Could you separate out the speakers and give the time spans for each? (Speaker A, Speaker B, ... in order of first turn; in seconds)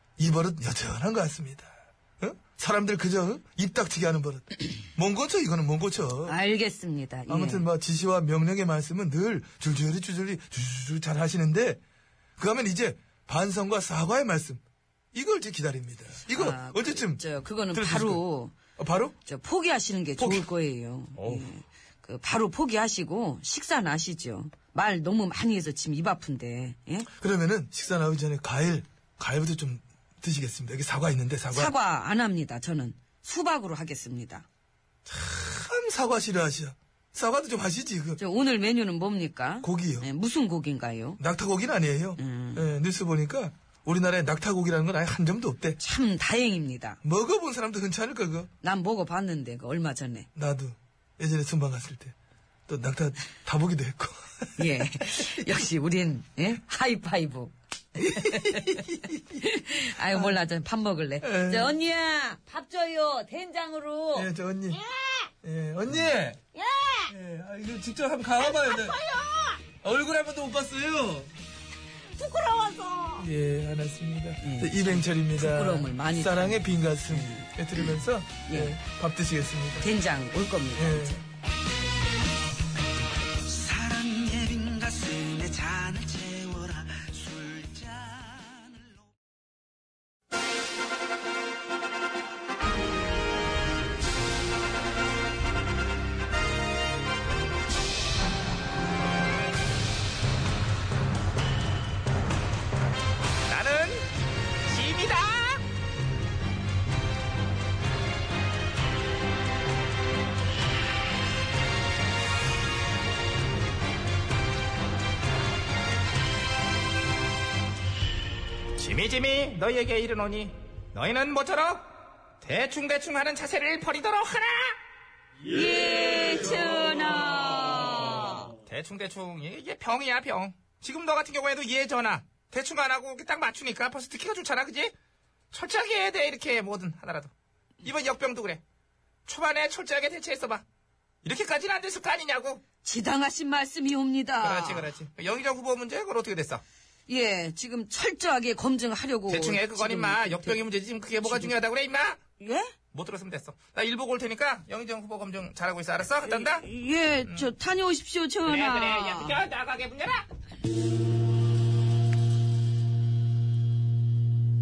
Speaker A: 0.2-6.4, 7.3-11.8, 12.4-14.6, 15.1-18.2, 18.8-19.1, 20.2-20.5, 27.2-31.8, 35.1-38.2, 39.6-40.1, 41.2-45.8, 47.0-48.5, 50.4-52.1, 52.7-54.8, 58.0-59.4, 60.0-60.3, 61.2-61.8, 64.2-64.8, 65.4-66.4, 67.1-69.0, 69.8-71.3, 73.2-79.9, 80.8-81.2
Speaker B: 6.3-7.7, 16.3-18.6, 19.2-27.1, 31.5-34.5, 38.2-41.2, 42.2-42.7, 45.8-47.0, 48.6-50.3, 54.6-65.3, 66.5-67.1, 68.4-69.6, 72.2-73.3, 74.4-77.5, 78.5-78.8, 79.8-81.2, 125.5-128.5, 142.8-144.9, 147.1-150.6, 151.2-151.5, 152.4-152.7, 156.3-159.4
Speaker C: 83.5-88.7, 103.5-104.1, 104.7-105.6, 123.3-124.7, 130.6-134.9, 135.5-137.3, 137.8-138.6, 139.3-140.5, 142.2-142.6, 144.4-144.8, 145.8-146.4, 149.3-150.5, 151.2-152.2, 153.5-153.9, 155.1-156.6, 158.5-160.2
Speaker D: 103.5-104.0, 104.7-105.3, 118.8-121.8, 122.4-124.5, 128.6-134.9, 135.5-137.3, 137.9-138.6, 139.3-140.6, 141.2-142.6, 144.5-146.6, 149.3-152.2, 152.9-156.5, 159.5-160.1